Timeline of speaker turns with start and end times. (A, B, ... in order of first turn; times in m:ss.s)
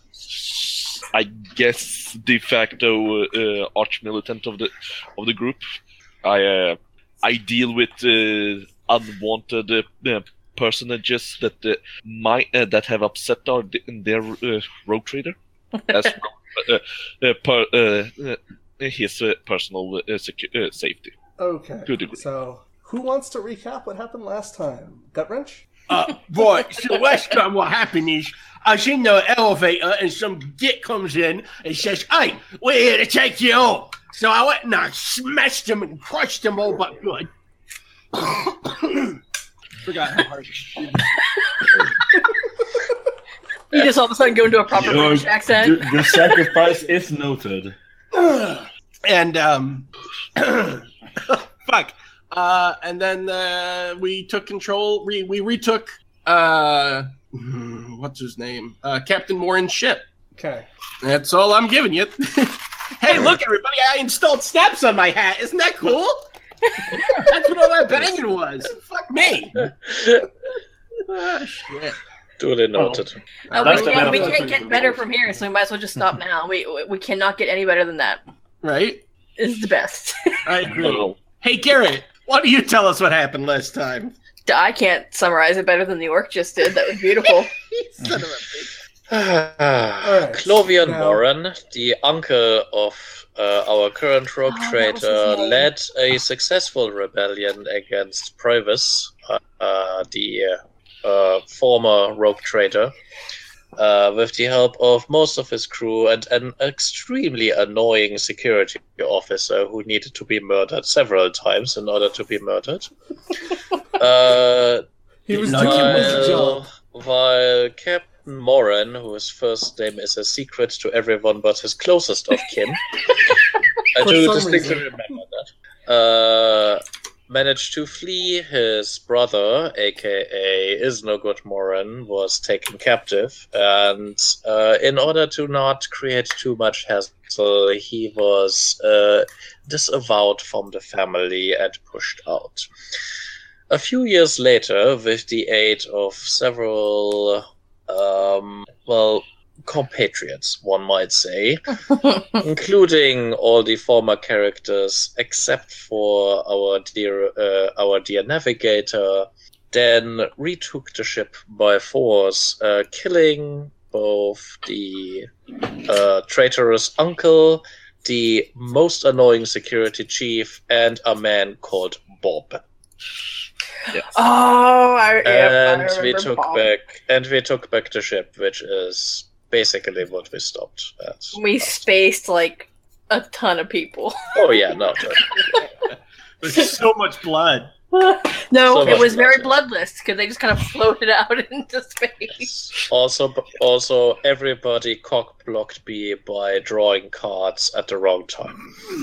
0:00.2-0:05.6 A
0:06.2-0:15.4 A
0:15.9-0:21.1 A
0:21.4-0:25.7 B
0:21.9-0:22.2 A
0:25.9-0:37.3 C
0:39.9-0:41.0 C
0:43.7-0:46.2 D
0:44.7-0:47.8 E
0:48.1-0:49.9 C
0:50.4-1:00.0 C
1:00.4-1:00.7 B
1:01.0-1:06.2 C
1:07.1-1:09.6 C
1:09.6-1:10.3 F
1:11.6-1:12.0 C
1:12.4-1:13.2 F
1:12.8-1:13.0 E
1:13.5-1:14.5 B
1:13.5-1:18.2 D
1:13.6-1:15.1 E
1:18.6-1:19.0 C
1:19.4-1:20.3 D
1:20.5-1:24.2 C
1:20.8-1:21.1 A
1:24.5-1:27.5 D
1:27.2-1:28.7 C
1:29.1-1:42.9 F
1:30.0-1:31.2 B
1:34.5-1:35.7 D
1:43.8-1:52.9 F
1:54.0-2:03.0 F
1:55.3-1:56.6 B
1:55.5-1:56.2 C
1:55.5-1:55.8 E
2:04.0-2:22.7 F
2:04.0-2:05.2 B
2:23.7-2:45.3 F
2:45.8-2:52.6 F
2:53.9-2:56.6 D
2:55.2-3:01.8 F
3:01.3-3:04.3 D
3:04.3-3:05.6 F
3:06.4-3:07.7 C
3:07.9-3:12.5 D
3:08.7-3:09.6 F
3:12.4-3:18.7 F